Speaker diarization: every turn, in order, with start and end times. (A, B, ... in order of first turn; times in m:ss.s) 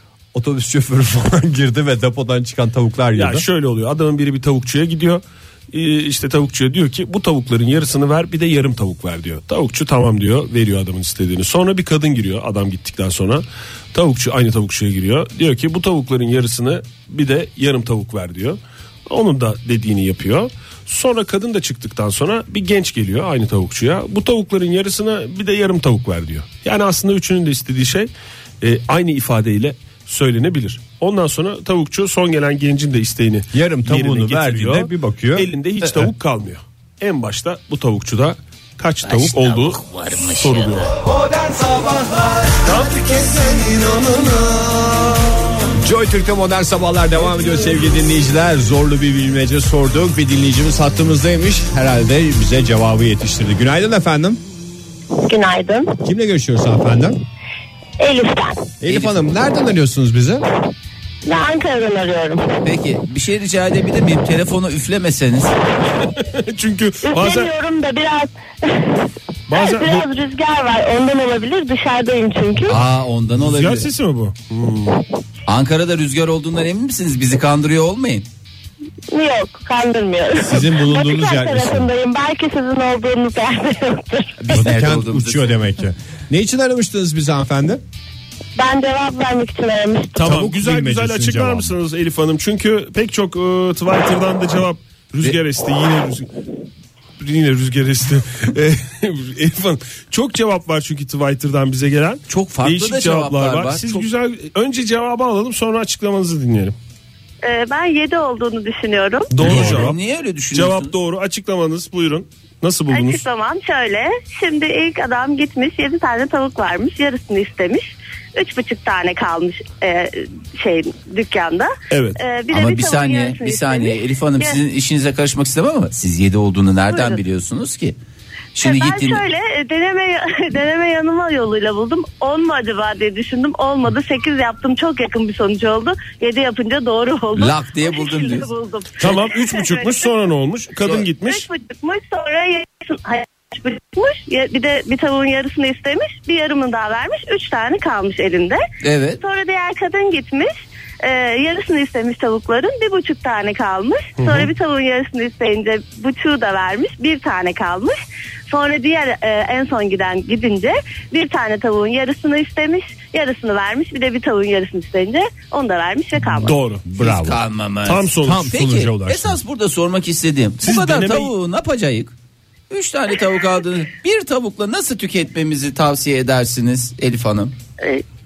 0:00.3-0:03.4 A
0:03.1-0:40.9 B
0:33.5-0:36.1 A
0:39.0-0:40.9 C
0:42.6-0:44.1 B
0:43.9-0:44.7 A
0:45.8-0:54.4 A
0:55.3-0:56.0 D
0:55.3-0:55.8 E
0:56.0-0:57.2 A
0:58.0-0:58.7 D
0:58.8-1:00.4 A
0:58.8-0:59.2 C
1:01.3-1:02.4 D
1:02.6-1:05.5 C
1:06.1-1:07.5 B
1:07.0-1:09.0 D
1:09.5-1:10.1 B
1:09.5-1:12.7 D
1:09.8-1:10.4 E
1:12.7-1:13.9 C
1:13.4-1:15.0 B
1:15.5-1:18.2 C
1:19.1-1:24.3 D
1:19.1-1:19.7 E
1:20.4-1:21.9 A
1:21.1-1:21.4 E
1:24.4-1:25.6 C
1:24.5-1:27.8 A
1:28.6-1:30.2 D
1:30.2-1:36.3 B
1:30.2-1:31.7 A
1:37.2-1:46.7 B
1:42.3-1:44.0 C
1:47.4-1:49.3 E
1:49.3-1:50.0 B
1:49.4-1:50.9 C
1:49.4-1:49.9 A
1:50.5-1:53.2 B
1:52.9-2:04.6 E
2:01.9-2:02.2 B
2:02.5-2:08.0 C
2:06.9-2:07.2 E
2:08.5-2:09.2 C
2:08.6-2:20.1 E
2:17.3-2:18.5 C
2:19.0-2:21.4 B
2:21.2-2:28.6 E
2:28.8-2:29.2 C
2:29.2-2:38.0 E
2:34.2-2:34.5 B
2:38.5-2:46.6 E
2:46.4-2:46.8 B
2:46.8-2:47.4 A
2:47.0-2:52.1 C
2:47.8-2:48.5 B
2:48.2-2:49.4 A
2:50.6-2:51.3 B
2:52.7-2:57.5 C